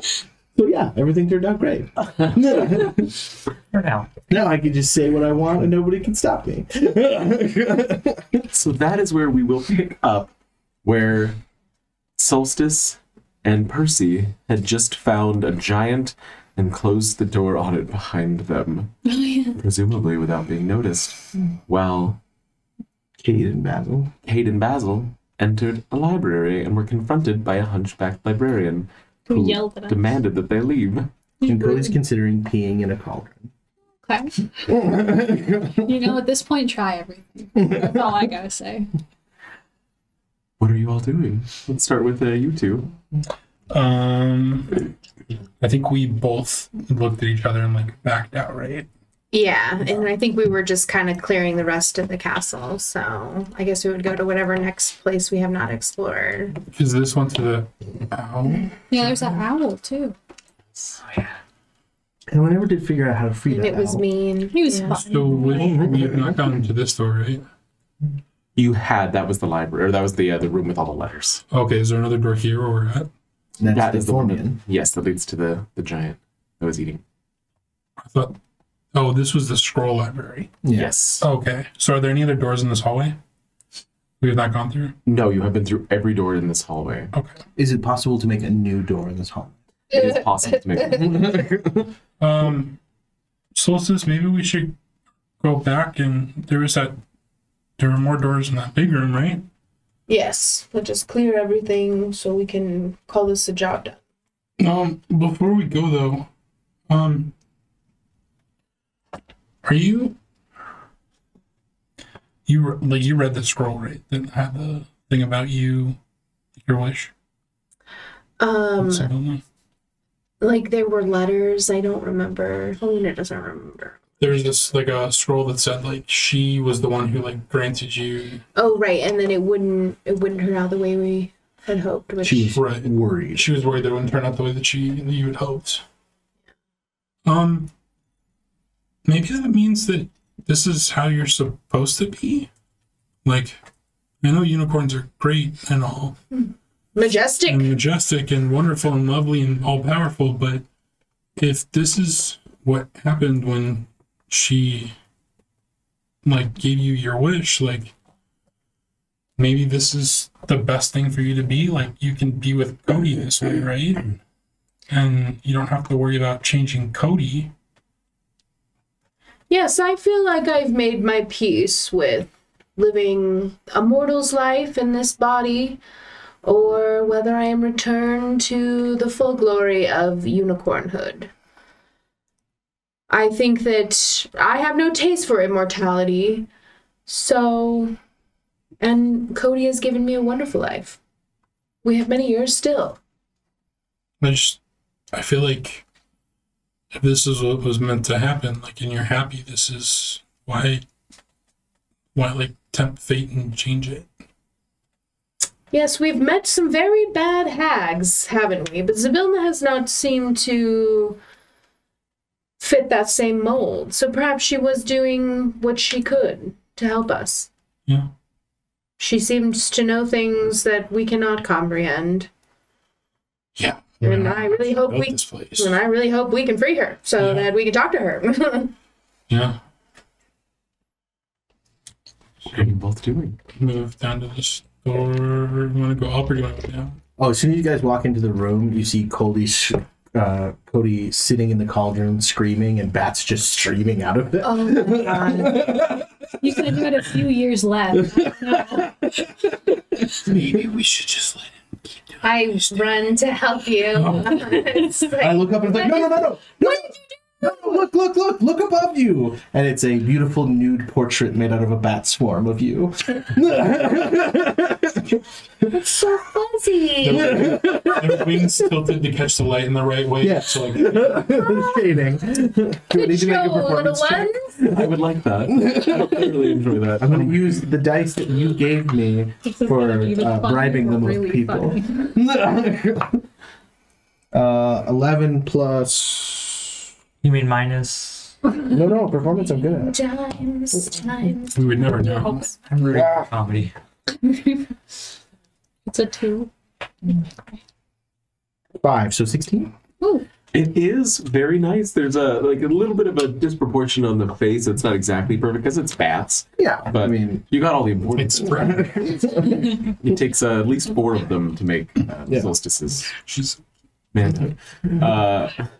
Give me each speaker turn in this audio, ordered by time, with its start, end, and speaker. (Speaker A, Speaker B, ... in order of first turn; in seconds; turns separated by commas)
Speaker A: 0.5-3.2, Speaker B: 3.7-4.3, Speaker A: 4.3-8.4, Speaker C: 8.5-10.3, Speaker C: 10.8-11.4, Speaker C: 12.2-18.9, Speaker D: 19.1-19.6, Speaker C: 19.5-22.2, Speaker A: 23.2-24.1, Speaker C: 24.2-31.1, Speaker D: 29.3-30.0, Speaker D: 31.4-31.9, Speaker A: 31.4-33.5, Speaker D: 34.0-34.5, Speaker A: 34.7-35.9, Speaker D: 35.8-38.9, Speaker C: 40.6-42.9, Speaker E: 43.7-44.9, Speaker E: 45.6-48.9, Speaker F: 49.3-56.6, Speaker E: 56.7-59.2, Speaker D: 58.9-60.1, Speaker A: 62.3-64.0, Speaker F: 63.5-65.0, Speaker D: 64.5-65.8, Speaker E: 64.9-67.4, Speaker A: 65.5-66.4, Speaker C: 68.5-71.4, Speaker E: 71.5-73.1, Speaker A: 73.6-74.6, Speaker C: 73.7-77.0, Speaker E: 78.0-78.4, Speaker E: 78.9-80.5, Speaker A: 80.6-80.9, Speaker C: 80.7-81.2, Speaker E: 81.2-83.2, Speaker E: 84.2-84.9, Speaker C: 85.0-87.1, Speaker A: 87.6-89.5, Speaker C: 89.9-91.3, Speaker F: 89.9-91.0, Speaker A: 90.9-91.9, Speaker E: 92.2-92.8, Speaker E: 93.5-94.7, Speaker E: 95.4-97.0, Speaker E: 97.8-99.5, Speaker F: 100.1-104.0, Speaker E: 104.6-106.3, Speaker E: 106.9-107.3, Speaker E: 109.6-110.2, Speaker E: 112.5-116.0, Speaker E: 116.6-117.1, Speaker F: 118.4-119.1, Speaker E: 118.8-119.4, Speaker F: 120.4-124.5, Speaker E: 124.2-128.4, Speaker F: 128.5-132.6, Speaker A: 132.2-133.5, Speaker E: 132.5-135.8, Speaker E: 137.2-137.7, Speaker E: 139.0-142.5, Speaker E: 143.2-143.6, Speaker E: 144.2-146.2, Speaker F: 146.9-147.8, Speaker E: 147.4-150.6, Speaker E: 151.4-154.9, Speaker E: 156.2-157.9, Speaker E: 159.4-164.2, Speaker E: 164.9-167.5, Speaker F: 169.5-175.8, Speaker F: 176.4-181.3, Speaker F: 183.1-186.5, Speaker F: 187.1-188.0, Speaker F: 188.8-191.0, Speaker F: 191.8-193.0, Speaker E: 194.2-194.6, Speaker E: 195.1-195.8, Speaker E: 196.9-200.8, Speaker E: 202.1-204.1, Speaker F: 205.7-211.2, Speaker F: 212.6-217.5, Speaker F: 219.0-222.3, Speaker E: 223.6-225.8, Speaker F: 224.0-228.7, Speaker E: 227.2-227.5, Speaker E: 229.3-229.6, Speaker C: 232.4-233.4, Speaker E: 233.6-236.9, Speaker A: 237.2-246.6, Speaker F: 244.4-245.8, Speaker D: 246.4-249.0, Speaker E: 250.2-252.2, Speaker F: 252.2-256.2, Speaker E: 253.9-254.6, Speaker A: 255.2-265.2, Speaker F: 265.7-267.4, Speaker E: 267.0-271.4, Speaker A: 267.1-268.7, Speaker A: 270.2-283.2, Speaker F: 272.9-274.6, Speaker C: 274.7-277.4, Speaker D: 279.4-282.1, Speaker A: 284.3-286.7, Speaker B: 287.2-288.4, Speaker A: 288.6-289.9, Speaker F: 289.7-291.7, Speaker E: 291.5-292.5, Speaker D: 291.9-292.5, Speaker B: 292.6-293.7, Speaker A: 292.9-293.3, Speaker D: 294.2-294.7, Speaker D: 295.9-296.5, Speaker A: 298.8-299.7, Speaker D: 300.0-300.3, Speaker C: 300.5-308.8, Speaker A: 306.6-307.4, Speaker E: 308.1-309.3, Speaker A: 308.6-309.6, Speaker C: 309.9-313.1, Speaker A: 312.2-312.5, Speaker E: 313.2-313.6, Speaker C: 314.1-315.6